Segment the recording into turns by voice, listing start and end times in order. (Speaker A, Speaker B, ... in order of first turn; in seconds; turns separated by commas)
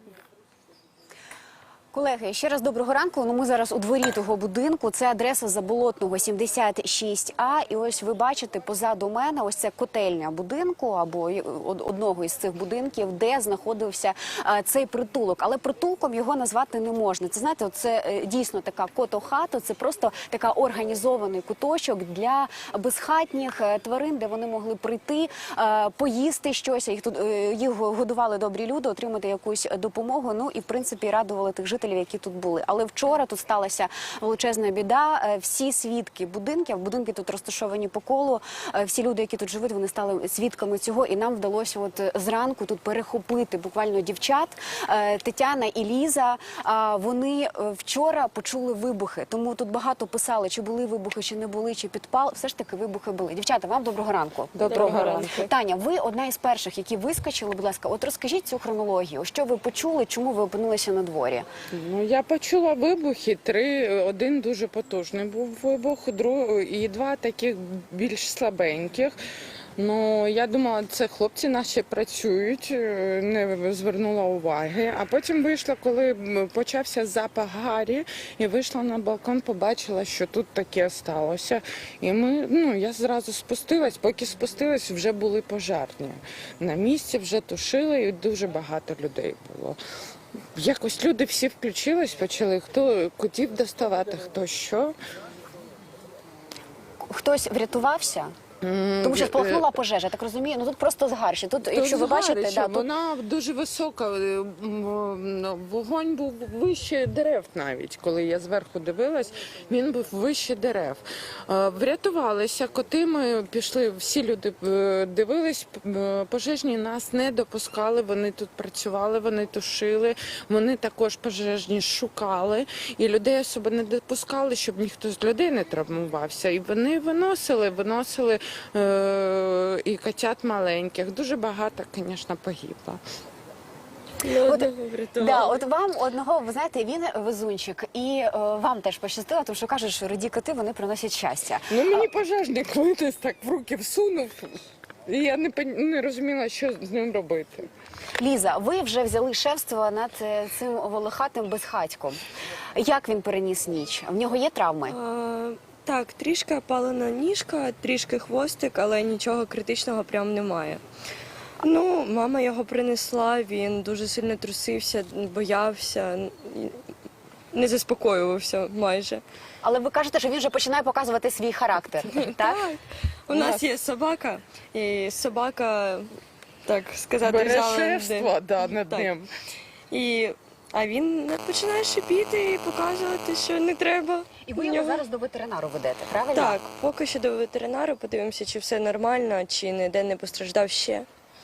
Speaker A: 1.9-61.5, Speaker B: 54.5-55.5, Speaker C: 54.6-55.5, Speaker B: 61.7-69.2, Speaker B: 69.8-89.8, Speaker B: 90.5-94.9, Speaker A: 97.0-98.3, Speaker B: 98.6-99.6, Speaker A: 99.0-102.9, Speaker B: 101.6-133.0, Speaker C: 134.2-135.6, Speaker A: 134.4-142.1, Speaker B: 141.7-147.7, Speaker A: 148.2-152.2, Speaker A: 152.7-154.9, Speaker C: 154.9-160.8, Speaker C: 161.6-166.8, Speaker C: 167.5-169.2, Speaker A: 169.6-172.6, Speaker C: 172.2-176.1, Speaker C: 176.7-179.1, Speaker B: 177.2-179.3, Speaker C: 179.9-185.0, Speaker A: 184.4-186.6, Speaker C: 186.3-191.1